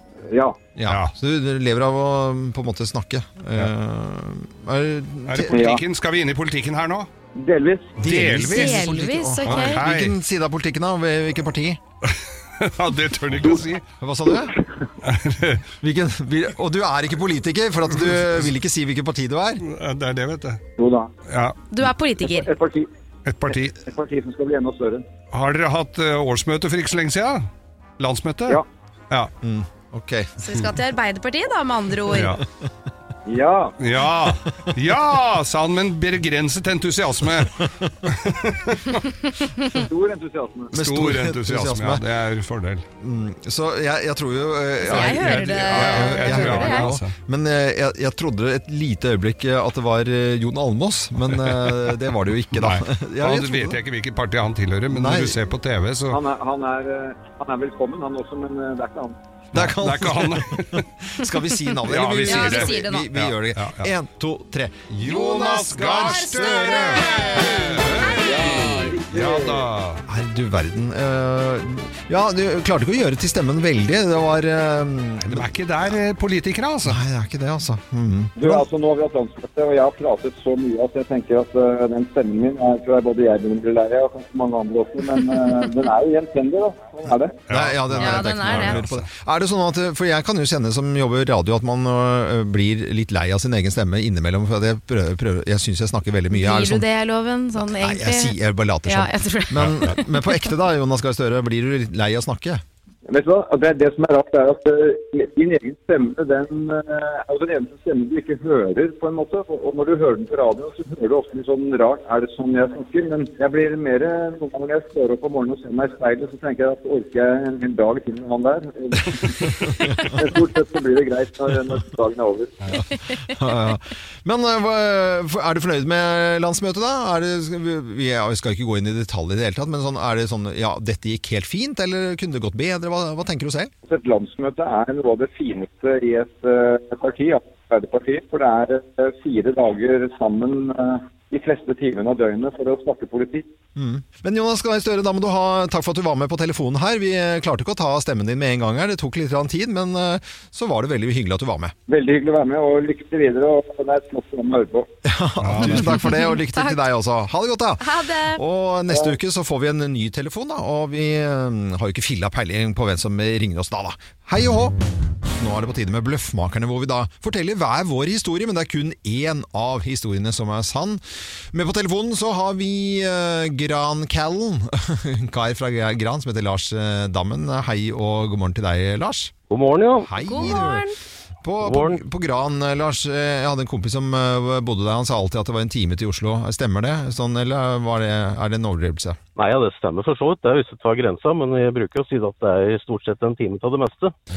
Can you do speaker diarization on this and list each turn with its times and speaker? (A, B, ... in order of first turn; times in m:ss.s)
0:00.2-0:00.6 A
0:00.8-0:05.6 B
0:00.9-0:01.1 C
0:05.3-0:07.1 C
0:05.5-0:05.8 A
0:07.4-0:07.9 A
0:08.0-0:11.8 B
0:08.0-0:10.1 C
0:08.5-0:09.8 D
0:12.1-0:13.8 C
0:13.4-0:14.5 B
0:15.0-0:15.7 C
0:15.8-0:19.6 B
0:19.6-0:20.6 C
0:20.8-0:21.1 A
0:21.3-0:21.6 C
0:21.7-0:22.5 D
0:22.3-0:22.9 A
0:23.2-0:23.7 C
0:23.7-0:25.0 A
0:25.3-0:27.5 C
0:28.0-0:28.6 C
0:29.4-0:30.4 B
0:30.4-0:32.4 D
0:32.1-0:32.4 C
0:33.2-0:33.8 A
0:33.8-0:38.9 C
0:39.7-0:40.7 A
0:40.7-0:42.0 B
0:40.7-0:42.8 C
0:43.0-0:53.8 B
0:44.8-0:46.9 D
0:44.9-0:47.1 C
0:51.3-0:52.0 C
0:52.5-0:56.2 C
0:54.9-0:55.4 B
0:56.1-0:59.2 A
0:59.5-1:08.0 B
0:59.5-1:00.8 C
1:01.9-1:03.9 C
1:02.2-1:03.1 D
1:04.9-1:10.0 C
1:05.9-1:08.9 D
1:08.2-1:09.7 A
1:10.0-1:16.0 B
1:15.2-1:17.0 C
1:16.8-1:18.6 B
1:18.4-1:27.4 A
1:27.5-1:29.1 C
1:27.5-1:36.9 B
1:28.0-1:28.8 D
1:36.3-1:40.3 D
1:37.6-1:42.6 B
1:39.6-1:39.9 C
1:43.0-2:02.6 A
1:59.6-2:00.2 B
2:02.7-2:13.7 B
2:13.8-2:23.5 A
2:23.8-2:31.7 B
2:31.9-2:34.9 A
2:35.0-2:44.8 B
2:35.4-2:36.0 C
2:35.9-2:36.8 D
2:37.8-2:38.4 D
2:38.9-2:39.2 A
2:45.4-2:59.3 B
2:59.5-3:00.1 E
3:00.0-3:00.9 B
3:00.2-3:01.0 D
3:01.4-3:09.2 B
3:01.6-3:02.0 E
3:09.4-3:14.1 E